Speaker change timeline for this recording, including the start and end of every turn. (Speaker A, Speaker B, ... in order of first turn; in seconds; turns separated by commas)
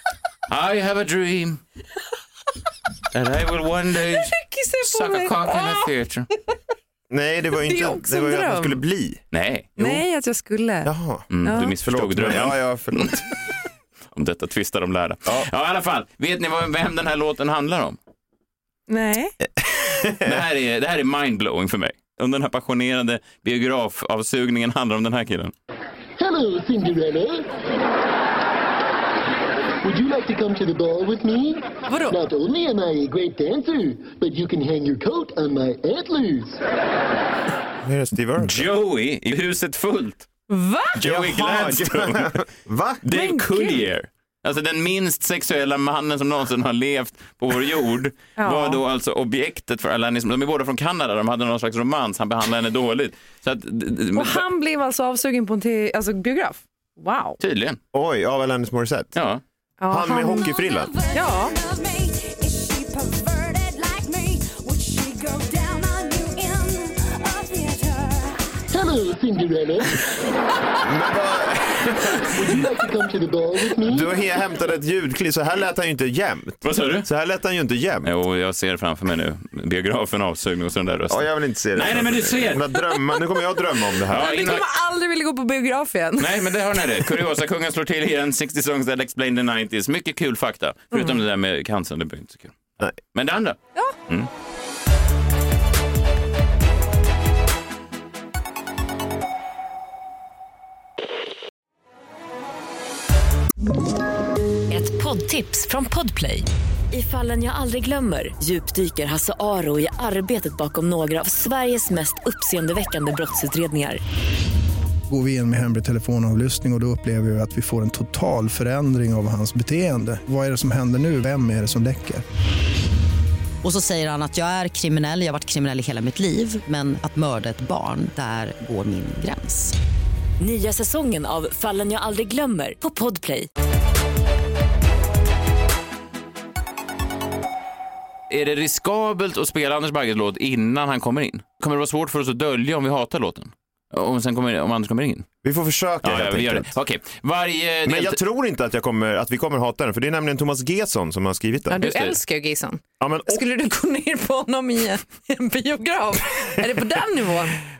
Speaker A: 0.5-1.6, Speaker A: 3.1-6.3, Speaker B: 4.3-5.9, Speaker C: 7.1-9.2, Speaker B: 7.6-8.8, Speaker A: 9.3-9.7, Speaker B: 9.8-10.9, Speaker C: 10.8-13.2, Speaker A: 11.3-13.2, Speaker B: 11.4-11.7, Speaker A: 14.1-18.0, Speaker B: 18.9-19.3, Speaker C: 19.6-20.4, Speaker A: 20.2-25.5, Speaker D: 26.2-27.5, Speaker D: 29.8-36.6, Speaker B: 31.9-32.2, Speaker C: 37.8-38.7, Speaker A: 38.4-40.3, Speaker B: 40.5-41.0, Speaker C: 41.0-43.0, Speaker A: 41.0-42.3, Speaker A: 43.0-54.4, Speaker B: 43.1-43.8, Speaker B: 48.4-48.8, Speaker B: 54.1-57.4, Speaker A: 57.4-57.8, Speaker C: 57.9-59.1, Speaker A: 59.1-59.4, Speaker B: 59.8-60.5, Speaker C: 59.9-60.9, Speaker E: 60.4-68.5, Speaker B: 61.1-61.5, Speaker D: 68.7-70.0, Speaker C: 70.8-72.6, Speaker D: 72.3-74.1, Speaker C: 73.8-78.1, Speaker A: 76.6-77.1, Speaker A: 78.0-82.6, Speaker C: 81.1-84.5, Speaker A: 84.1-84.7, Speaker B: 84.1-86.5, Speaker A: 86.2-94.3, Speaker B: 90.9-91.2, Speaker F: 104.7-114.0, Speaker G: 115.1-122.2, Speaker H: 123.6-129.7, Speaker F: 130.4-133.5, Speaker A: 138.3-145.3, Speaker C: 145.4-146.7, Speaker A: 146.0-148.2, Speaker C: 147.8-151.9, Speaker B: 151.7-157.6, Speaker A: 151.8-152.2, Speaker C: 153.0-153.4